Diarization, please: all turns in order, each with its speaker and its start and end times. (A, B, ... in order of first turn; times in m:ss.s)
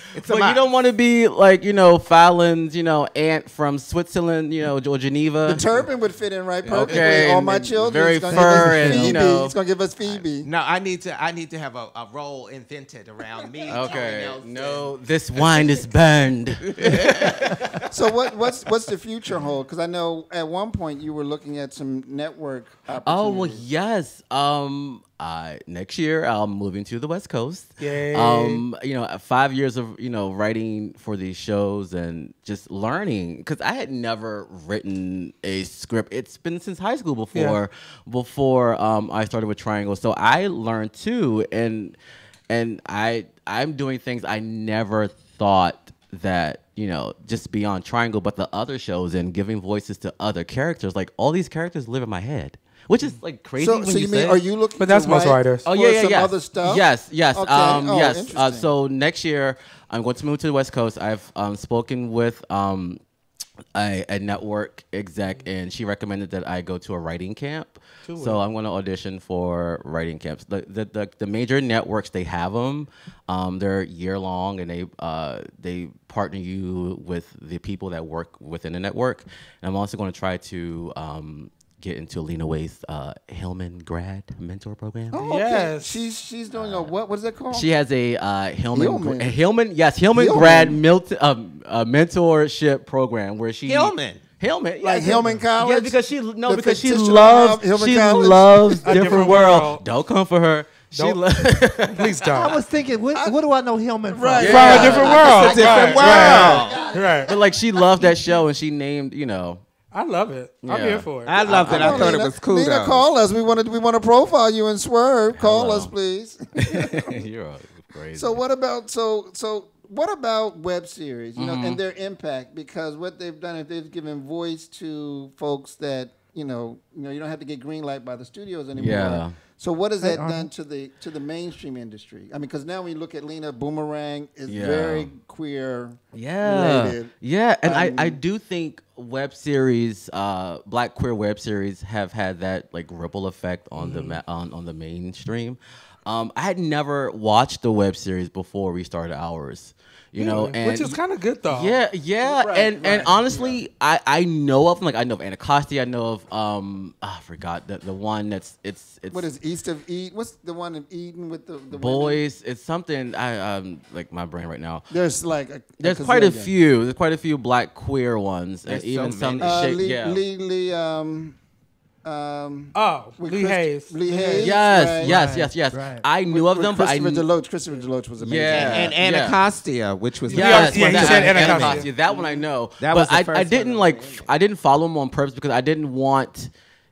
0:00.1-0:00.6 A
0:00.2-0:05.7 B
0:05.4-0:10.5 C
0:06.6-0:10.2 B
0:08.3-0:09.2 D
0:10.4-0:15.8 A
0:13.7-0:17.8 B
0:16.6-0:17.4 A
0:17.9-0:23.6 C
0:23.0-0:42.0 B
0:27.8-0:28.6 E
0:37.3-0:37.6 E
0:42.5-0:54.4 B
0:53.6-0:58.7 C
0:54.8-0:55.6 E
0:55.6-1:03.0 B
1:03.7-1:25.3 B
1:08.0-1:08.4 E
1:25.1-1:27.7 C
1:25.2-1:26.0 E
1:26.5-1:26.9 B
1:27.5-1:42.3 B
1:28.7-1:29.3 C
1:30.1-1:30.8 C
1:33.7-1:34.2 A
1:34.8-1:39.2 C
1:38.8-1:39.8 E
1:40.9-1:41.2 E
1:41.9-1:42.6 E
1:42.3-1:47.5 D
1:44.1-1:45.5 C
1:44.4-1:45.5 B
1:44.4-1:47.3 E
1:45.2-1:46.8 A
1:47.2-1:49.6 B
1:49.9-1:51.4 E
1:50.6-1:52.1 B
1:51.2-1:53.0 A
1:51.4-1:57.0 C
1:55.4-1:55.9 B
1:56.6-1:58.4 B
1:58.1-2:18.2 C
2:01.4-2:01.8 B
2:08.7-2:09.4 B
2:10.0-2:10.5 D
2:14.5-2:15.1 B
2:16.1-2:31.0 B
2:23.8-2:24.2 E
2:30.2-2:31.8 E
2:31.5-2:39.3 B
2:32.2-2:33.6 C
2:39.1-2:42.2 C
2:41.7-2:44.9 B
2:44.9-2:46.5 C
2:45.8-2:50.2 B
2:48.7-2:49.7 A
2:49.4-2:51.4 C
2:52.0-2:55.3 C
2:52.7-2:54.3 E
2:54.1-2:56.0 D
2:54.3-2:57.2 B
2:56.3-2:58.9 C
2:58.2-2:59.4 B
2:58.5-3:04.3 A
3:00.3-3:01.9 E
3:00.3-3:06.5 B